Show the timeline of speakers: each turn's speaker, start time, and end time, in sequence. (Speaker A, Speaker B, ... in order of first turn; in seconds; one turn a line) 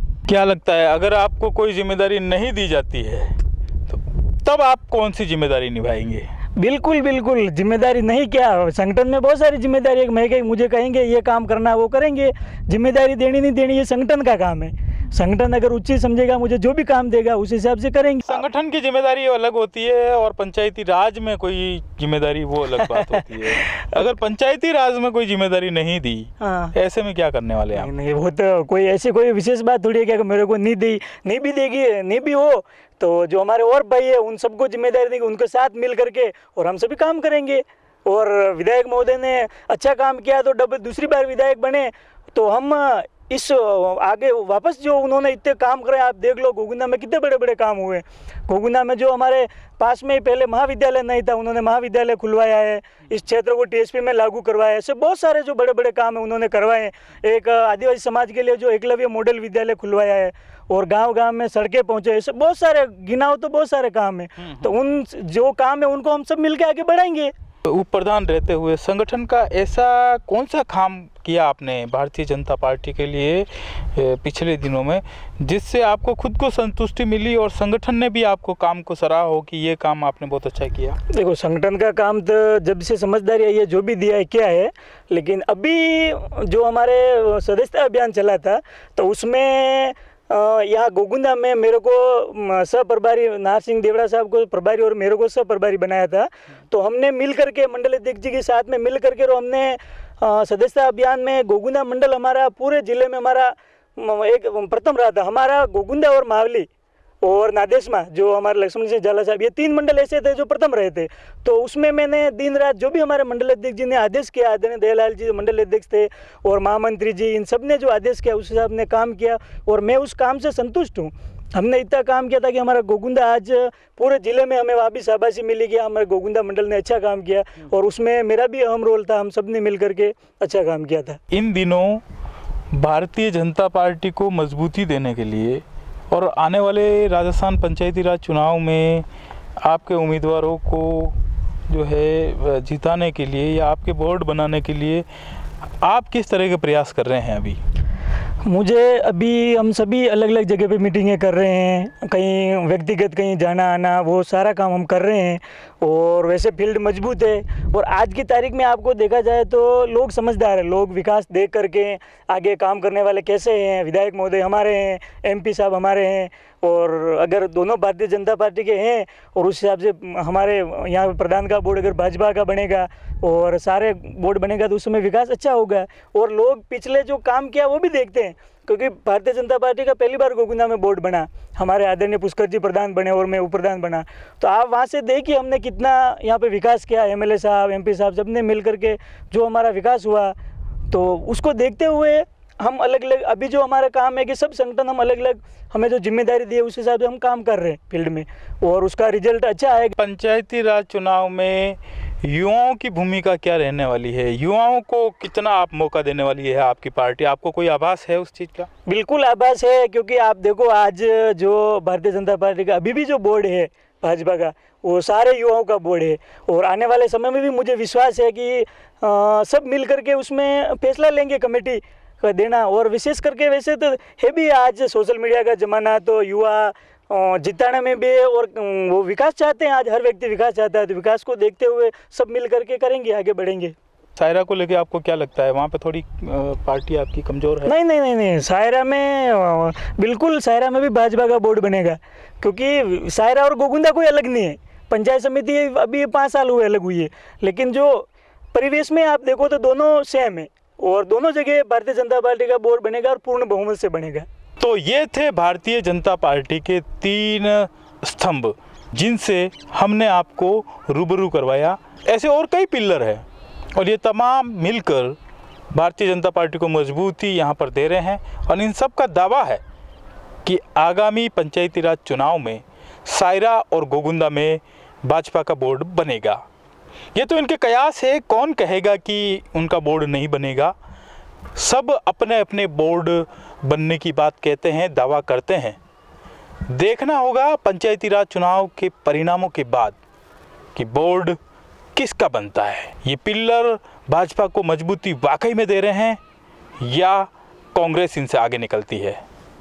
Speaker A: 0.3-6.3
Speaker B: 6.6-18.4
Speaker A: 18.3-27.9
Speaker B: 22.8-23.9
Speaker B: 26.4-26.8
Speaker B: 27.7-67.3
Speaker A: 67.7-81.0
Speaker B: 81.1-106.7
Speaker B: 107.2-131.2
Speaker A: 131.3-132.0
Speaker A: 132.7-139.1
Speaker A: 139.6-145.1
Speaker A: 145.8-147.6
Speaker B: 148.4-190.3
Speaker B: 190.9-199.9
Speaker A: 200.0-208.7
Speaker B: 208.9-233.8
Speaker A: 234.2-237.7
Speaker B: 237.7-254.3
Speaker A: 254.6-263.2
Speaker A: 263.8-265.2
Speaker A: 265.7-269.6
Speaker A: 270.4-276.4
Speaker A: 277.1-280.7
Speaker A: 281.6-285.8
Speaker A: 286.7-290.0
Speaker A: 290.8-291.4
Speaker A: 291.9-296.2
Speaker A: 296.8-299.2